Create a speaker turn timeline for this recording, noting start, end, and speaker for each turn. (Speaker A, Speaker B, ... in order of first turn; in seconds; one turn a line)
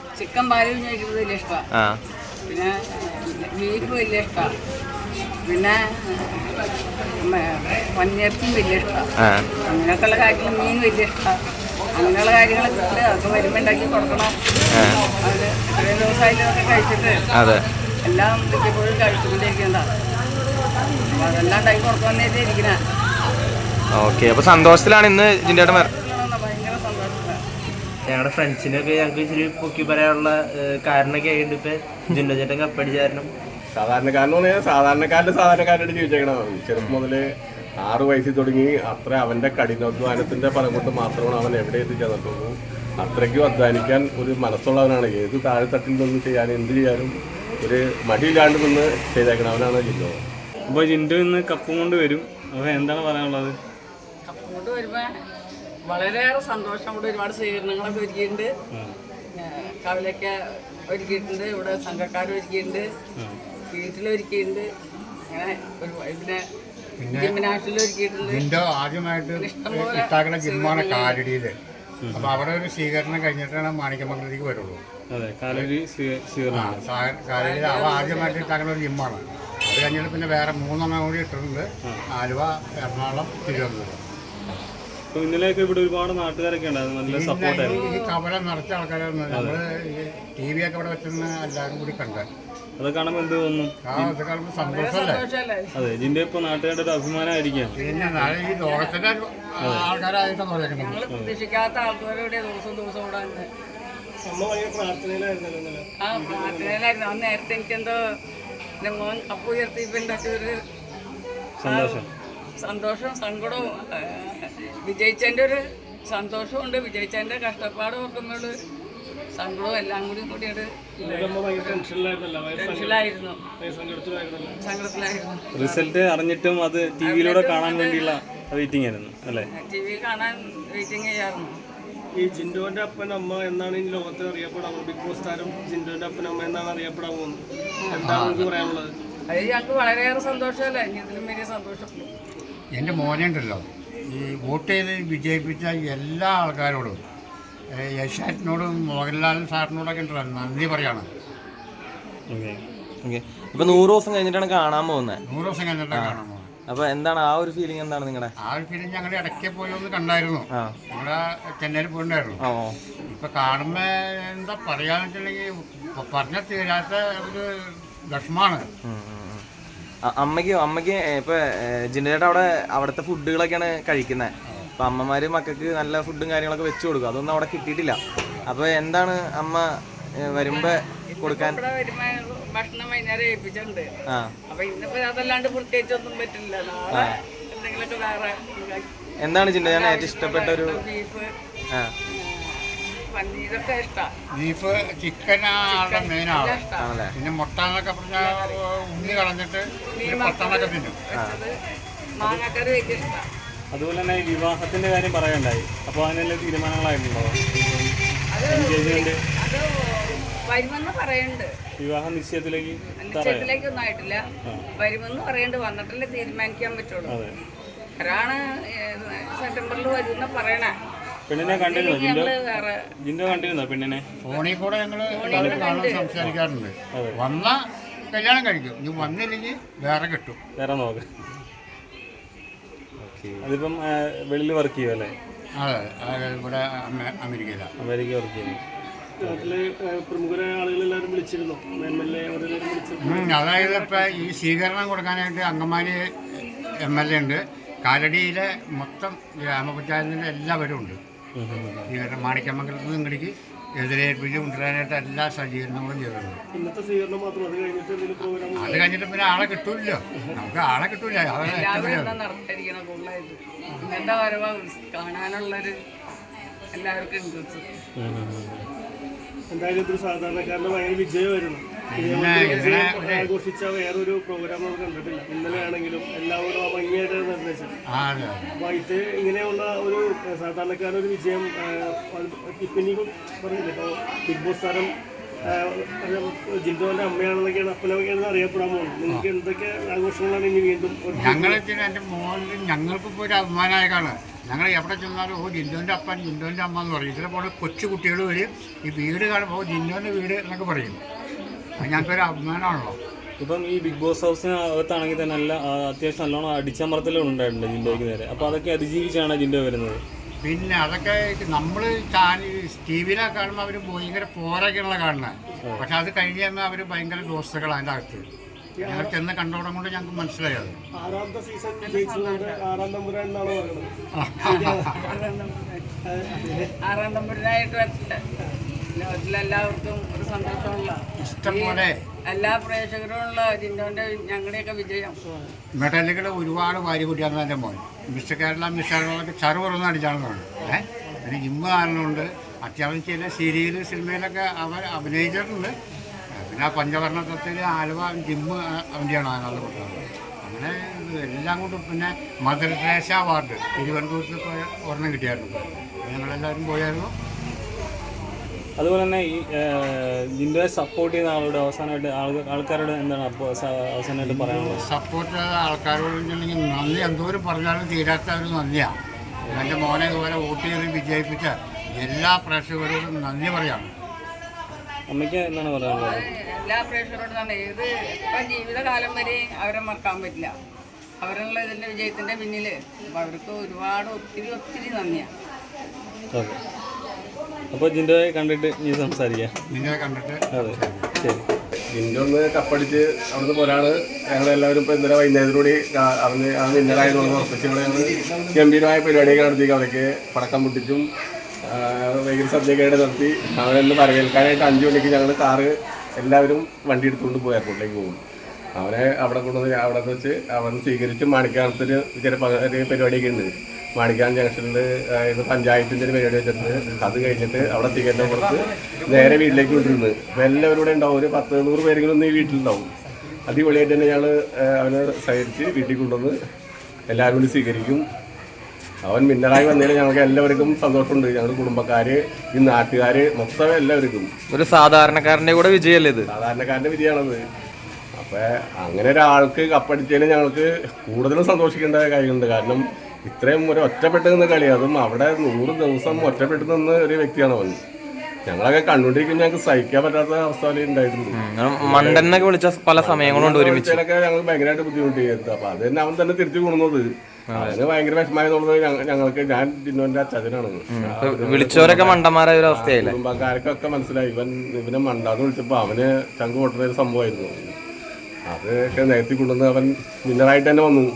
Speaker A: 0.2-1.6
Speaker A: 2.5-4.5
Speaker A: 5.5-6.4
Speaker A: 7.2-9.1
Speaker A: 9.7-11.3
Speaker A: 11.9-14.3
Speaker B: 14.7-15.0
Speaker A: 15.2-17.2
Speaker B: 17.3-17.6
Speaker A: 18.0-19.9
Speaker A: 21.1-22.7
Speaker B: 23.9-25.9
Speaker A: 25.7-27.4
Speaker C: 28.1-33.3
Speaker D: 33.8-37.2
Speaker D: 37.8-50.1
Speaker E: 50.7-53.6
Speaker A: 54.3-55.1
Speaker A: 55.9-58.5
Speaker A: 59.4-60.3
Speaker A: 60.9-62.9
Speaker A: 63.7-64.7
Speaker A: 65.3-66.4
Speaker F: 67.0-67.3
Speaker A: 67.2-68.4
Speaker F: 68.2-71.5
Speaker A: 69.4-71.2
Speaker E: 72.0-72.3
Speaker F: 72.1-74.8
Speaker E: 75.1-76.8
Speaker F: 76.5-84.0
Speaker A: 77.3-78.5
Speaker E: 85.1-87.8
Speaker F: 87.1-92.2
Speaker A: 87.6-88.1
Speaker E: 89.3-89.6
Speaker E: 92.8-94.1
Speaker F: 93.9-95.2
Speaker A: 94.6-95.7
Speaker E: 95.7-97.8
Speaker A: 97.8-98.9
Speaker F: 97.8-101.0
Speaker A: 100.8-103.5
Speaker G: 104.2-106.8
Speaker A: 106.0-108.0
Speaker A: 108.8-110.5
Speaker E: 111.6-112.1
Speaker A: 111.6-112.0
Speaker A: 112.6-118.5
Speaker A: 119.3-121.8
Speaker G: 121.0-123.0
Speaker A: 122.5-123.4
Speaker G: 123.6-124.5
Speaker A: 124.6-125.9
Speaker E: 125.5-129.5
Speaker A: 127.0-128.0
Speaker A: 129.5-131.6
Speaker G: 132.2-137.4
Speaker G: 137.9-138.9
Speaker F: 138.0-138.5
Speaker A: 139.3-142.1
Speaker F: 142.8-147.0
Speaker F: 147.8-151.1
Speaker E: 152.3-152.6
Speaker B: 153.0-155.2
Speaker F: 155.2-156.5
Speaker B: 155.9-158.3
Speaker F: 158.4-162.4
Speaker B: 162.4-162.8
Speaker F: 163.1-168.6
Speaker B: 168.8-169.4
Speaker B: 170.1-179.7
Speaker B: 180.2-181.6
Speaker A: 180.5-183.9
Speaker A: 184.5-188.9
Speaker B: 189.2-190.8
Speaker A: 189.6-191.3
Speaker A: 192.1-194.1
Speaker F: 194.3-196.6
Speaker A: 195.7-196.9
Speaker B: 196.8-197.1
Speaker F: 197.1-200.9
Speaker A: 198.2-199.2
Speaker A: 200.0-201.5
Speaker A: 202.2-203.2
Speaker E: 203.7-207.9
Speaker A: 208.3-211.5
Speaker E: 208.5-209.2
Speaker E: 211.8-213.5
Speaker A: 213.0-214.2
Speaker A: 214.8-217.1
Speaker E: 217.1-217.3
Speaker A: 218.0-220.7
Speaker E: 221.3-222.3
Speaker A: 221.4-222.7
Speaker E: 223.0-224.0
Speaker F: 224.2-227.6
Speaker A: 225.1-226.1
Speaker E: 225.3-225.6
Speaker F: 228.1-230.4
Speaker E: 230.6-231.1
Speaker E: 233.0-235.1
Speaker F: 235.6-237.7
Speaker E: 237.8-238.6
Speaker G: 239.2-244.1
Speaker E: 239.2-239.5
Speaker F: 243.0-246.0
Speaker F: 246.8-251.0
Speaker E: 251.3-251.9
Speaker F: 251.9-256.4
Speaker G: 256.5-258.8
Speaker F: 258.5-262.2
Speaker A: 261.5-265.8
Speaker A: 266.7-267.6
Speaker E: 268.0-268.6
Speaker G: 269.5-277.7
Speaker F: 271.9-273.3
Speaker F: 277.9-278.5
Speaker G: 278.6-284.9
Speaker G: 285.4-291.6
Speaker F: 291.1-301.0
Speaker F: 301.8-303.0
Speaker E: 303.4-310.0
Speaker F: 310.4-318.2
Speaker G: 318.8-319.1
Speaker F: 318.8-320.8
Speaker G: 320.9-323.9
Speaker A: 321.8-322.6
Speaker F: 324.1-324.9
Speaker A: 324.4-325.8
Speaker G: 324.6-324.9
Speaker G: 326.1-326.7
Speaker A: 326.8-328.2
Speaker A: 328.9-335.2
Speaker F: 331.2-332.0
Speaker F: 335.7-345.7
Speaker F: 346.4-357.1
Speaker E: 358.8-364.9
Speaker F: 364.2-368.9
Speaker F: 369.5-373.9
Speaker E: 375.1-376.2
Speaker A: 375.9-380.5
Speaker A: 381.2-385.3
Speaker E: 387.7-389.5
Speaker F: 389.7-391.1
Speaker E: 390.5-391.4
Speaker D: 391.9-401.0
Speaker D: 401.7-408.2
Speaker D: 408.8-422.9
Speaker D: 423.5-426.3
Speaker D: 427.1-428.0
Speaker D: 429.1-434.3
Speaker B: 434.5-436.3
Speaker D: 436.3-437.4
Speaker D: 438.2-447.8
Speaker D: 448.5-452.4
Speaker B: 451.3-454.0
Speaker D: 453.0-457.0
Speaker B: 457.5-457.8
Speaker D: 457.7-462.1
Speaker B: 460.9-463.1
Speaker D: 462.8-467.7
Speaker D: 468.5-471.1